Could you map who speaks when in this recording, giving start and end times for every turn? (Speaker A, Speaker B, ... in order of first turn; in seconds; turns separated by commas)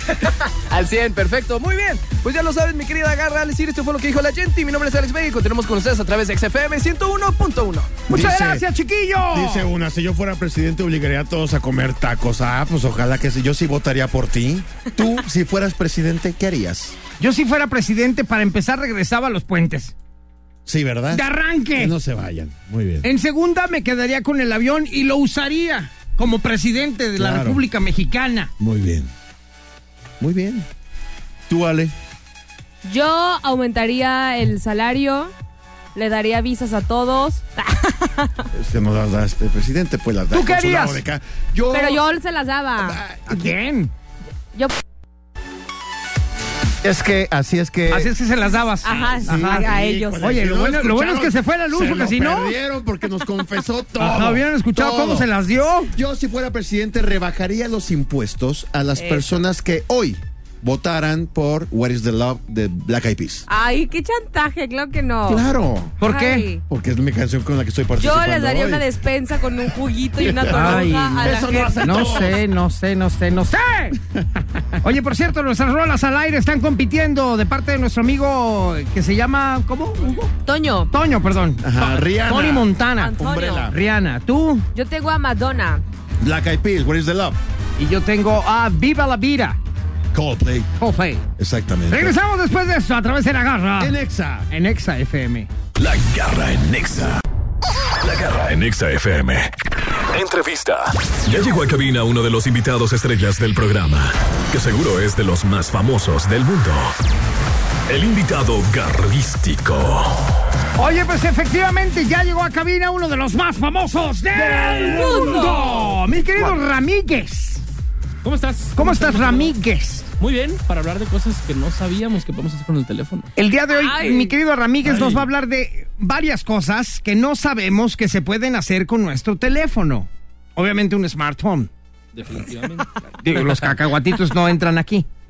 Speaker A: 0.1-8.0, Speaker B: 8.1-8.7, Speaker C: 8.1-9.7, Speaker B: 9.3-17.0, Speaker C: 17.2-19.9, Speaker B: 20.6-23.1, Speaker C: 21.1-21.9, Speaker C: 23.0-28.5, Speaker B: 27.2-27.6, Speaker B: 28.6-29.1, Speaker B: 30.2-30.7, Speaker B: 31.5-31.9, Speaker D: 32.8-35.3, Speaker D: 35.9-38.5, Speaker B: 38.5-42.1, Speaker C: 40.3-41.0, Speaker D: 41.7-43.0, Speaker B: 42.8-43.6, Speaker C: 43.3-43.9, Speaker B: 46.8-48.1, Speaker C: 47.9-49.7, Speaker D: 48.8-50.4, Speaker B: 49.2-55.3, Speaker C: 50.2-52.5, Speaker C: 54.0-55.9, Speaker B: 55.9-63.5, Speaker D: 59.0-59.2, Speaker D: 63.5-65.4, Speaker B: 65.2-66.0, Speaker C: 66.0-66.5, Speaker D: 66.0-66.6, Speaker B: 66.7-68.9, Speaker D: 68.0-72.3, Speaker B: 70.2-72.4, Speaker C: 70.5-74.0, Speaker B: 74.0-74.4, Speaker C: 74.8-80.3, Speaker D: 80.4-80.9, Speaker C: 80.9-83.2, Speaker B: 81.6-83.8, Speaker D: 83.0-83.7, Speaker C: 83.7-84.6, Speaker D: 84.7-85.8, Speaker B: 86.2-87.4, Speaker C: 87.8-89.6, Speaker B: 90.1-90.7, Speaker C: 90.8-91.2, Speaker B: 91.4-92.1, Speaker C: 91.9-93.9, Speaker B: 93.8-94.5, Speaker C: 94.5-95.5, Speaker E: 95.8-97.2, Speaker E: 98.0-99.5, Speaker E: 100.1-106.9, Speaker E: 107.9-110.3, Speaker C: 110.8-117.6, Speaker B: 114.5-115.6, Speaker D: 114.8-115.8, Speaker F: 118.2-119.5, Speaker C: 118.8-120.1, Speaker F: 120.2-123.3, Speaker C: 123.3-131.7, Speaker D: 123.7-124.3, Speaker B: 124.8-125.2, Speaker F: 132.1-133.8, Speaker C: 133.2-135.1